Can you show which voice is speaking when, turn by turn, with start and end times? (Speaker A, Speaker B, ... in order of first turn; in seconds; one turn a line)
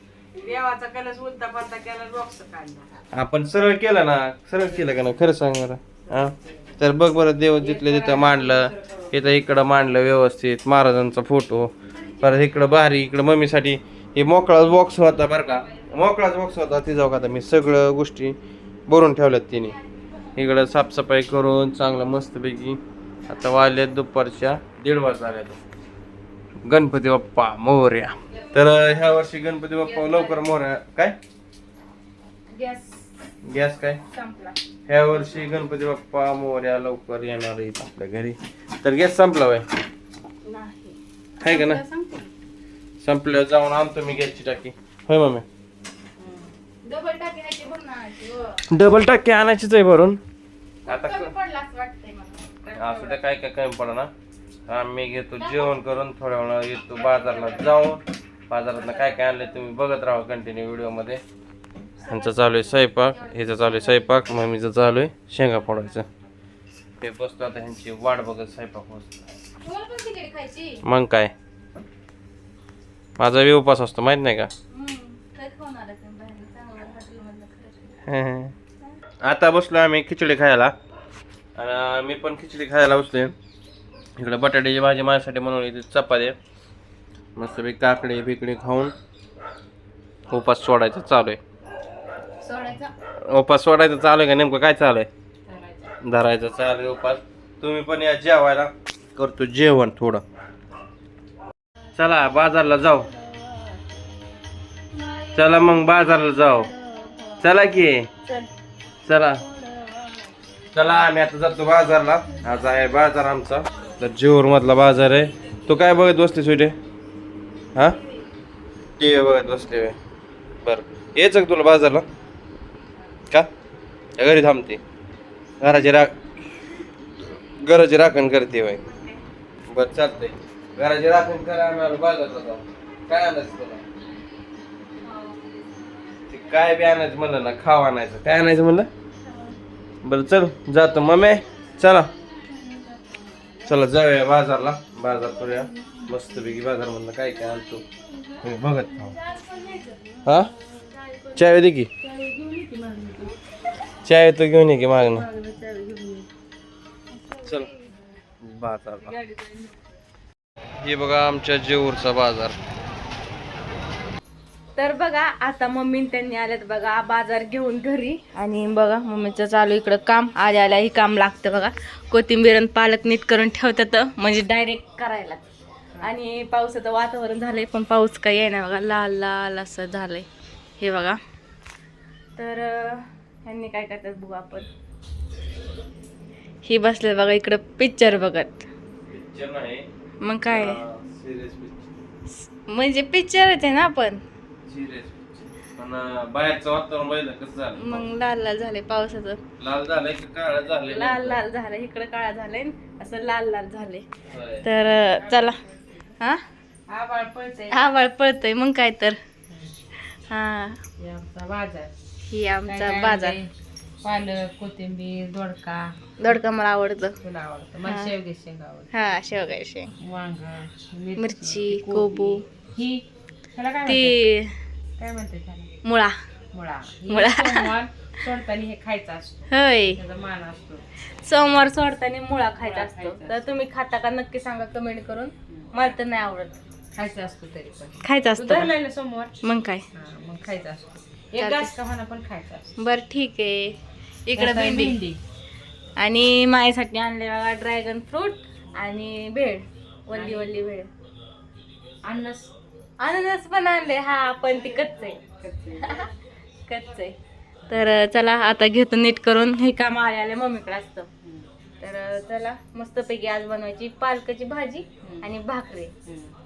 Speaker A: 0.4-2.9
Speaker B: 3.1-18.4
Speaker A: 6.1-6.7
Speaker A: 7.6-9.1
Speaker B: 18.9-19.8
Speaker B: 20.4-25.6
Speaker B: 26.6-31.1
Speaker C: 30.0-30.4
Speaker C: 32.5-33.1
Speaker B: 33.5-34.0
Speaker C: 34.1-34.6
Speaker B: 34.9-39.6
Speaker C: 40.4-42.3
Speaker B: 41.4-41.8
Speaker B: 43.0-45.4
Speaker A: 46.2-46.5
Speaker C: 46.8-48.6
Speaker B: 48.7-50.2
Speaker C: 50.8-53.2
Speaker B: 50.9-51.3
Speaker B: 52.7-54.1
Speaker B: 54.7-61.2
Speaker C: 55.4-55.7
Speaker C: 56.9-57.8
Speaker C: 58.8-59.5
Speaker C: 62.0-64.2
Speaker B: 62.0-66.1
Speaker B: 67.0-69.2
Speaker C: 69.6-70.8
Speaker B: 70.8-71.3
Speaker B: 73.2-74.5
Speaker C: 74.7-78.0
Speaker B: 78.0-78.5
Speaker B: 79.2-80.7
Speaker B: 81.5-83.3
Speaker B: 84.2-86.3
Speaker B: 87.3-88.9
Speaker B: 90.3-91.4
Speaker C: 92.4-92.9
Speaker B: 93.3-95.1
Speaker A: 95.5-95.9
Speaker B: 96.0-100.2
Speaker B: 101.9-103.1
Speaker C: 102.8-103.6
Speaker C: 104.9-107.5
Speaker B: 105.3-106.7
Speaker B: 107.4-108.1
Speaker C: 108.2-108.5
Speaker B: 109.0-109.4
Speaker C: 109.4-110.3
Speaker B: 110.7-116.8
Speaker B: 119.0-120.0
Speaker B: 120.6-122.0
Speaker B: 124.2-124.8
Speaker B: 125.6-126.1
Speaker B: 127.6-128.8
Speaker C: 128.9-129.2
Speaker B: 129.7-133.8
Speaker C: 135.0-135.3
Speaker B: 136.3-138.9
Speaker C: 139.2-139.6
Speaker B: 140.0-142.1
Speaker B: 143.7-147.8
Speaker C: 145.4-146.1
Speaker B: 148.4-149.1
Speaker C: 149.1-150.0
Speaker B: 150.2-150.5
Speaker C: 150.7-151.4
Speaker B: 151.3-151.9
Speaker C: 152.0-153.3
Speaker A: 152.8-153.3
Speaker B: 154.0-155.2
Speaker C: 155.0-156.3
Speaker C: 157.2-157.9
Speaker B: 158.4-159.2
Speaker C: 159.0-159.8
Speaker B: 160.8-162.6
Speaker C: 164.8-175.4
Speaker C: 176.0-180.3
Speaker C: 180.8-181.2
Speaker C: 182.4-184.7
Speaker C: 186.6-188.7
Speaker B: 189.1-189.9
Speaker C: 190.2-190.8
Speaker B: 190.5-191.9
Speaker C: 192.6-194.2
Speaker B: 194.7-198.1
Speaker C: 197.8-199.4
Speaker B: 199.6-201.4
Speaker C: 200.8-204.0
Speaker B: 204.3-204.7
Speaker C: 204.6-205.6
Speaker A: 204.8-206.1
Speaker A: 206.9-207.8
Speaker C: 207.7-209.2
Speaker A: 209.5-209.7
Speaker C: 210.3-210.8
Speaker A: 211.0-211.9
Speaker C: 212.3-213.4
Speaker A: 212.7-213.5
Speaker A: 214.0-216.4
Speaker C: 216.2-217.2
Speaker A: 217.2-218.9
Speaker C: 217.8-218.2
Speaker C: 218.9-219.9
Speaker A: 220.0-224.2
Speaker C: 221.2-222.4
Speaker C: 223.8-224.5
Speaker A: 225.0-225.8
Speaker C: 225.8-226.2
Speaker A: 226.5-230.8
Speaker C: 227.1-227.7
Speaker C: 229.5-230.0
Speaker C: 231.2-236.6
Speaker A: 232.6-233.3
Speaker A: 236.9-239.3
Speaker C: 238.0-238.8
Speaker C: 239.4-239.8
Speaker A: 239.9-242.8
Speaker C: 241.4-241.7
Speaker C: 242.8-245.0
Speaker A: 244.3-245.2
Speaker C: 246.0-250.9
Speaker A: 250.1-250.5
Speaker A: 252.0-252.5
Speaker C: 253.0-255.2
Speaker A: 255.2-256.1
Speaker C: 255.8-256.1
Speaker C: 256.6-257.2
Speaker C: 257.7-261.1
Speaker A: 261.2-261.5
Speaker C: 261.8-265.9
Speaker A: 265.0-265.3
Speaker A: 266.0-266.3